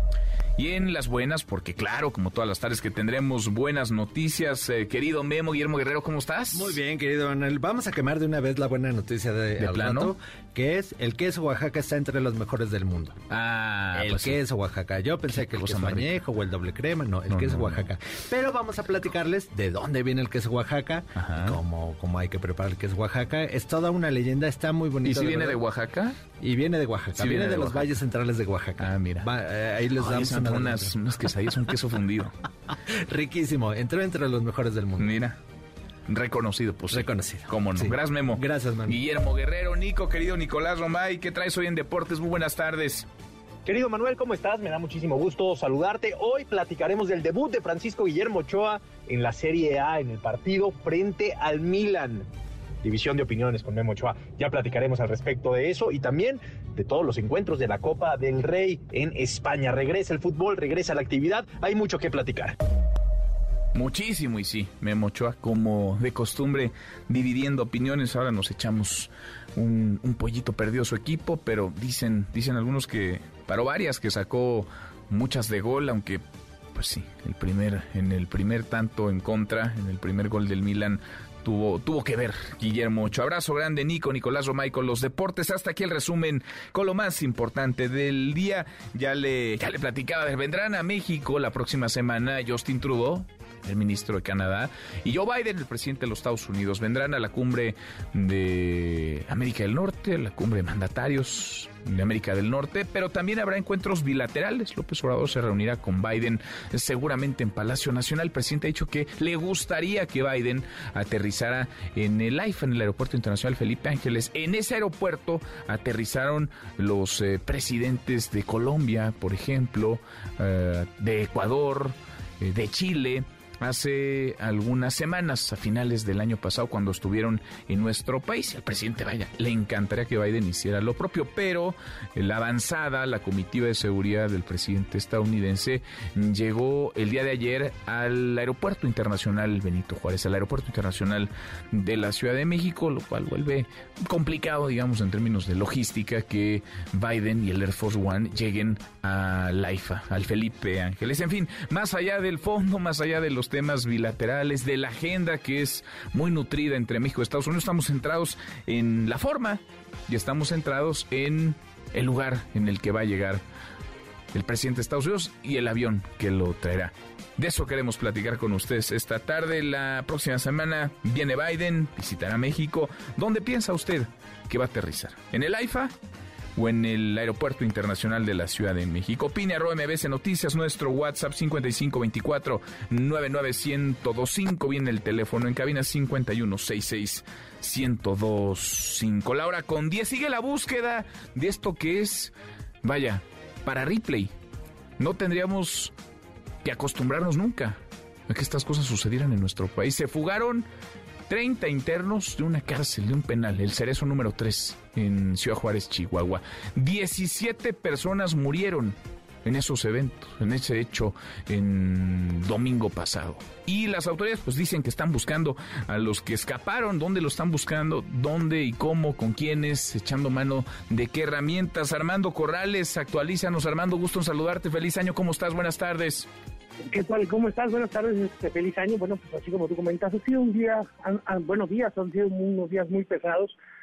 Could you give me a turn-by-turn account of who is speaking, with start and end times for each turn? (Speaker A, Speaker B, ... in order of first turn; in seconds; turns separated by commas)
Speaker A: 0.6-6.8, Speaker B: 6.5-13.2, Speaker A: 9.6-10.1, Speaker A: 13.3-14.4, Speaker B: 13.9-25.6, Speaker A: 15.3-16.2, Speaker A: 17.3-17.8, Speaker A: 21.2-21.6, Speaker A: 25.0-26.2, Speaker B: 26.4-30.9, Speaker A: 27.2-27.9, Speaker A: 28.8-29.3, Speaker A: 30.0-32.3, Speaker B: 33.1-35.1, Speaker A: 35.0-35.4, Speaker A: 36.1-43.1, Speaker B: 36.9-39.0, Speaker C: 43.7-52.3, Speaker C: 52.8-62.5, Speaker A: 63.8-76.2, Speaker A: 76.8-163.4, Speaker A: 164.3-175.9, Speaker A: 176.6-194.3, Speaker A: 195.0-195.9, Speaker A: 196.6-200.7, Speaker A: 201.3-226.3, Speaker D: 226.9-233.6